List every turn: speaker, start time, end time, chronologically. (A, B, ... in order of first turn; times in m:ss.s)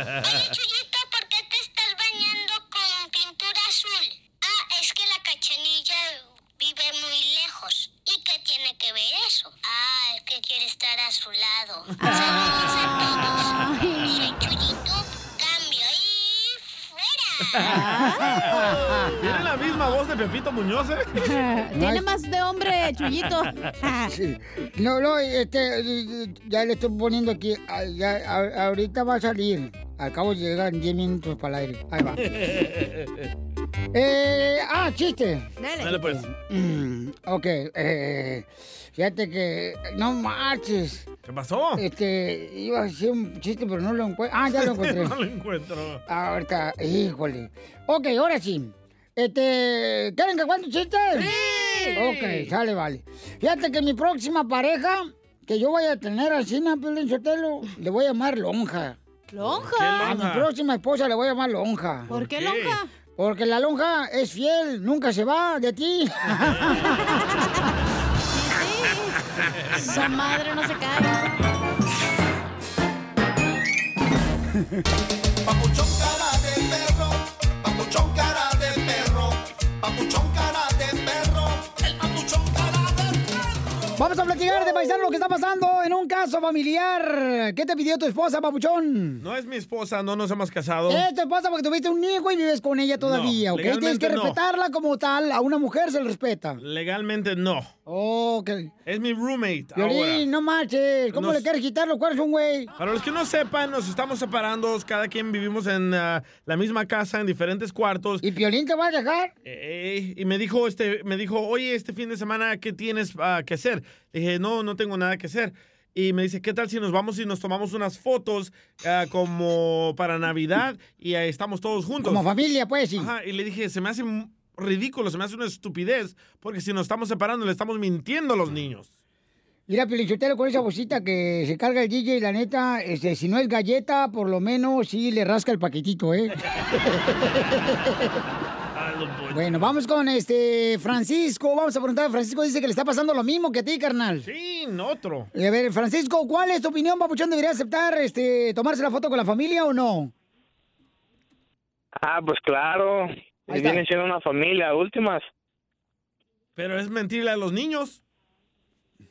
0:00.2-0:17.6 A
0:12.0-0:14.3 B
0:17.6-0:17.8 C
0:17.6-0:18.2 B
0:18.1-0:19.2 D
0:18.5-0:21.3 C
0:21.2-0:24.1 B
0:21.8-0:22.0 D
0:24.1-0:32.3 D
0:33.9-0:35.5 D
0:35.6-0:36.0 B
0:35.8-0:36.3 C
0:36.0-0:41.1 D
0:41.3-0:41.8 C
0:41.8-0:45.2 D
0:44.5-0:46.0 C
0:46.1-0:51.3 D
0:51.2-0:52.1 B
0:51.8-0:52.1 C
0:52.0-0:59.0 D
0:59.3-1:00.1 B
0:59.4-1:00.5 C
1:00.0-1:02.1 D
1:02.1-1:02.9 B
1:02.1-1:02.8 C
1:03.2-1:06.9 D
1:08.3-1:09.2 B
1:09.8-1:11.3 B
1:15.5-1:23.2 E
1:24.0-1:29.2 D
1:29.2-1:31.0 C
1:30.9-1:36.6 D
1:33.0-1:34.4 C
1:36.6-1:37.7 C
1:37.9-1:38.7 D
1:38.9-1:40.2 C
1:39.8-1:42.7 D
1:41.1-1:41.5 C
1:42.8-1:48.2 C
1:48.2-1:49.3 D
1:49.5-2:02.2 C
2:02.0-2:03.1 D
2:03.0-2:08.9 C
2:09.7-2:18.2 D
2:18.8-2:19.7 C
2:19.3-2:24.3 D
2:24.2-2:25.3 C
2:25.3-2:30.1 D
2:32.0-2:35.3 F
2:33.5-2:33.8 D
2:36.6-2:38.0 C